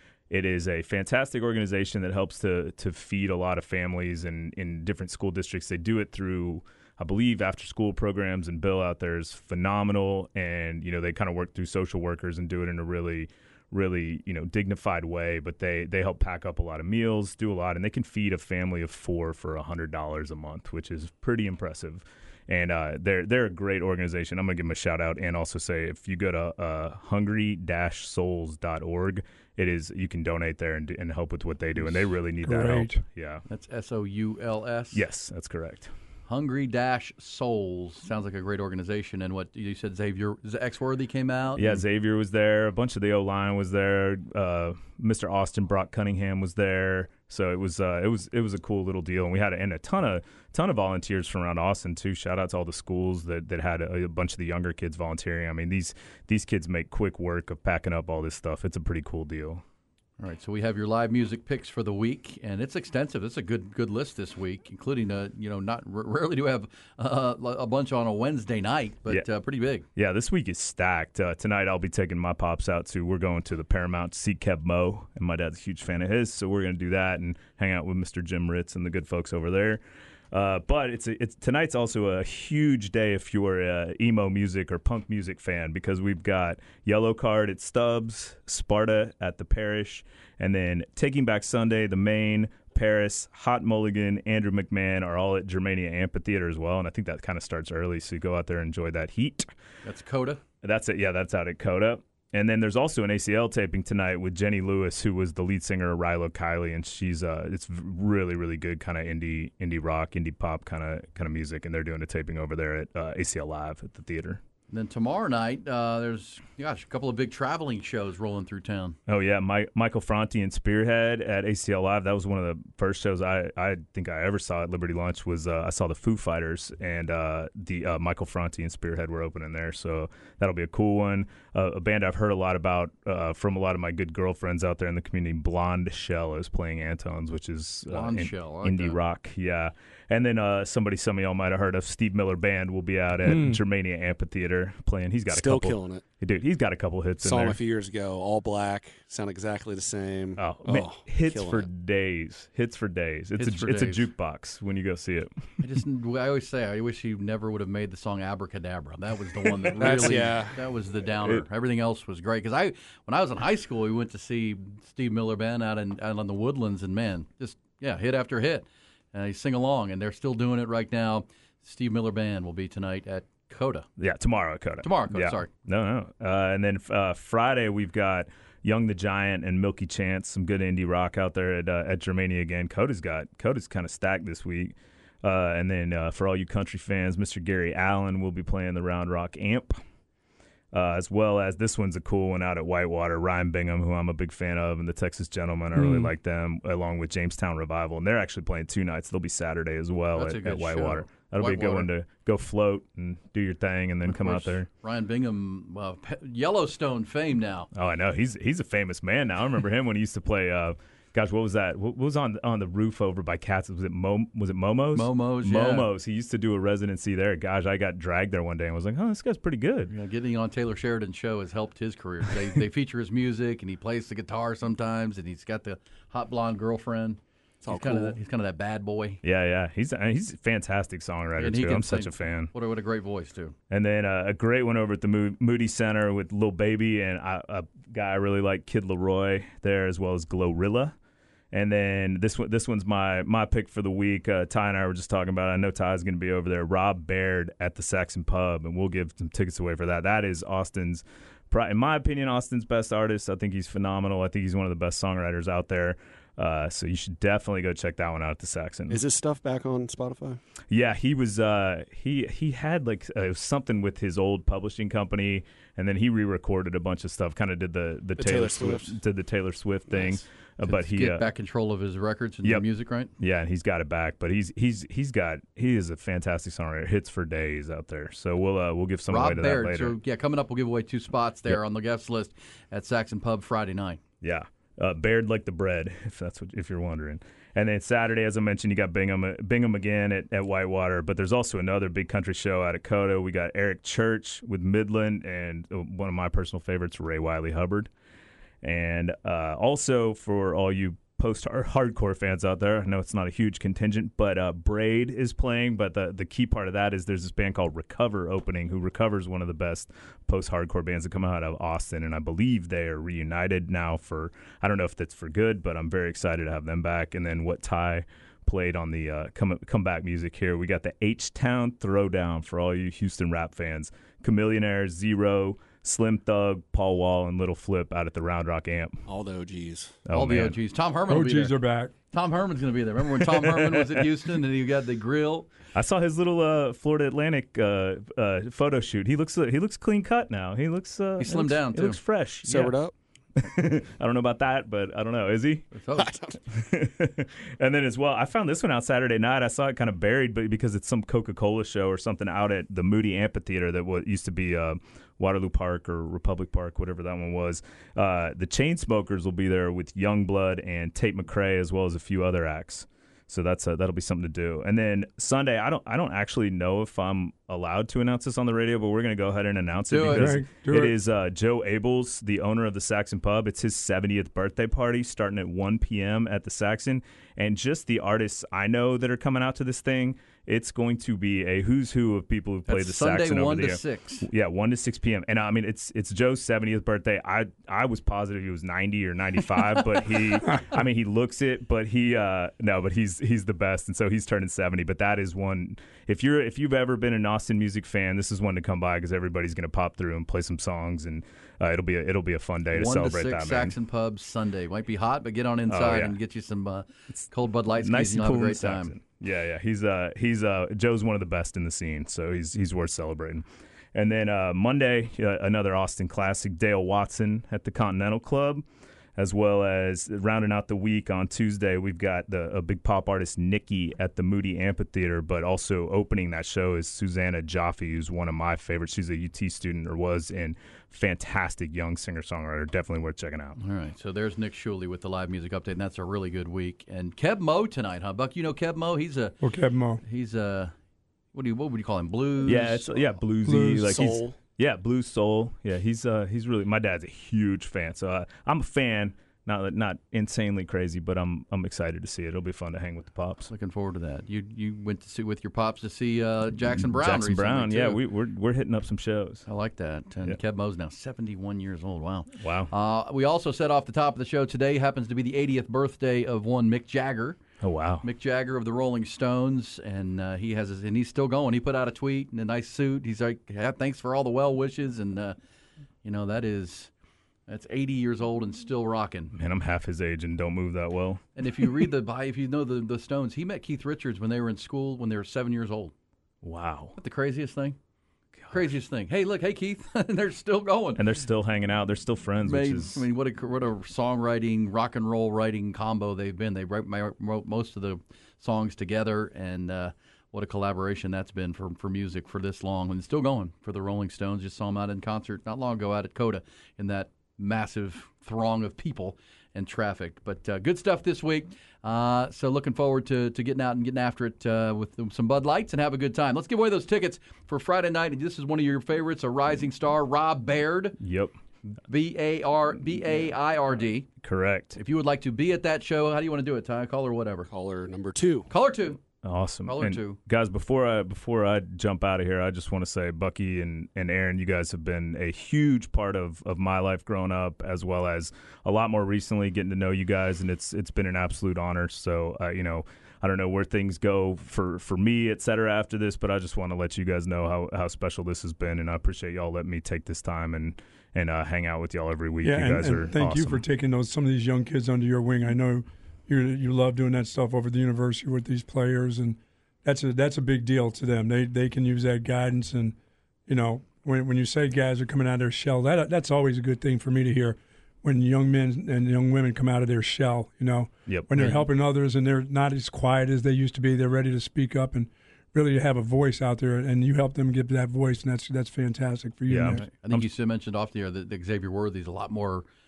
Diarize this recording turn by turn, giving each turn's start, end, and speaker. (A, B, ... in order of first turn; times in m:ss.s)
0:00.3-0:33.4 A
0:32.4-0:33.0 B
0:33.5-0:35.0 C
0:34.9-0:35.9 A
0:36.3-0:41.7 C
0:41.6-0:59.6 A
1:00.2-1:09.8 C
1:10.0-1:19.8 A
1:20.3-1:39.5 A
1:39.8-1:40.4 C
1:40.6-1:54.4 A
1:54.7-1:59.0 C
1:59.1-2:27.6 A
2:17.9-2:19.0 C
2:23.2-2:23.6 B
2:25.3-2:26.0 D
2:27.2-2:31.7 D
2:30.4-2:35.3 A
2:33.4-2:34.0 C
2:35.6-2:53.9 C
2:39.4-2:40.3 A
2:39.8-2:40.6 D
2:54.0-3:09.7 A
2:54.8-2:55.5 C
3:10.7-3:24.7 A
3:15.7-3:16.1 B
3:20.2-3:21.9 C
3:24.1-3:27.7 C
3:27.7-3:39.9 A
3:35.0-3:35.9 C
3:39.9-3:49.2 C
3:47.6-3:48.2 D
3:49.2-3:52.5 A
3:51.4-3:53.6 C
3:53.7-4:01.0 A
4:01.5-4:19.0 A
4:18.9-4:20.4 D
4:20.7-4:31.3 A
4:28.2-4:29.0 D
4:29.9-4:30.2 D
4:30.6-4:33.1 C
4:33.2-4:40.0 A
4:39.1-4:44.0 C
4:44.2-4:57.9 A
4:58.6-5:29.0 A
5:29.1-5:30.0 D
5:30.1-5:30.6 A
5:30.1-5:31.6 C
5:31.1-5:31.9 B
5:32.1-5:35.5 C
5:35.8-5:42.8 A
5:41.2-5:42.0 C
5:42.4-5:42.9 D
5:43.4-5:45.7 A
5:45.7-5:46.2 C
5:46.0-5:46.4 D
5:46.5-6:43.8 A
6:09.9-6:10.4 C
6:10.1-6:11.0 B
6:22.7-6:24.3 C
6:42.7-6:49.0 C
6:45.7-6:46.2 A
6:47.8-6:53.4 A
6:54.0-6:58.6 A
6:59.2-7:13.6 A
7:13.6-7:19.4 C
7:19.4-7:20.0 B
7:20.0-7:20.7 C
7:21.3-7:23.2 C
7:22.4-7:33.5 A
7:23.4-7:24.2 B
7:23.9-7:24.4 D
7:33.5-7:38.0 C
7:36.6-7:39.5 A
7:39.5-7:47.4 C
7:42.3-7:42.7 A
7:47.6-7:48.0 A
7:48.0-7:55.4 C
7:56.0-7:56.9 C
7:57.5-7:59.3 C
7:59.3-8:01.7 A
8:01.4-8:05.9 C
8:06.4-8:07.0 A
8:07.0-8:07.8 C
8:08.4-8:08.7 A
8:08.5-8:11.0 C
8:11.0-8:13.0 A
8:12.4-8:41.0 C
8:41.0-8:41.3 A
8:41.9-8:44.1 C
8:44.2-8:44.8 A
8:44.8-8:47.5 C
8:47.5-8:48.5 D
8:48.5-8:49.0 C
8:49.2-9:13.6 A
8:49.6-8:50.2 C
9:12.4-9:39.8 B
9:31.1-9:31.6 A
9:39.5-9:40.3 A
9:39.6-9:42.7 C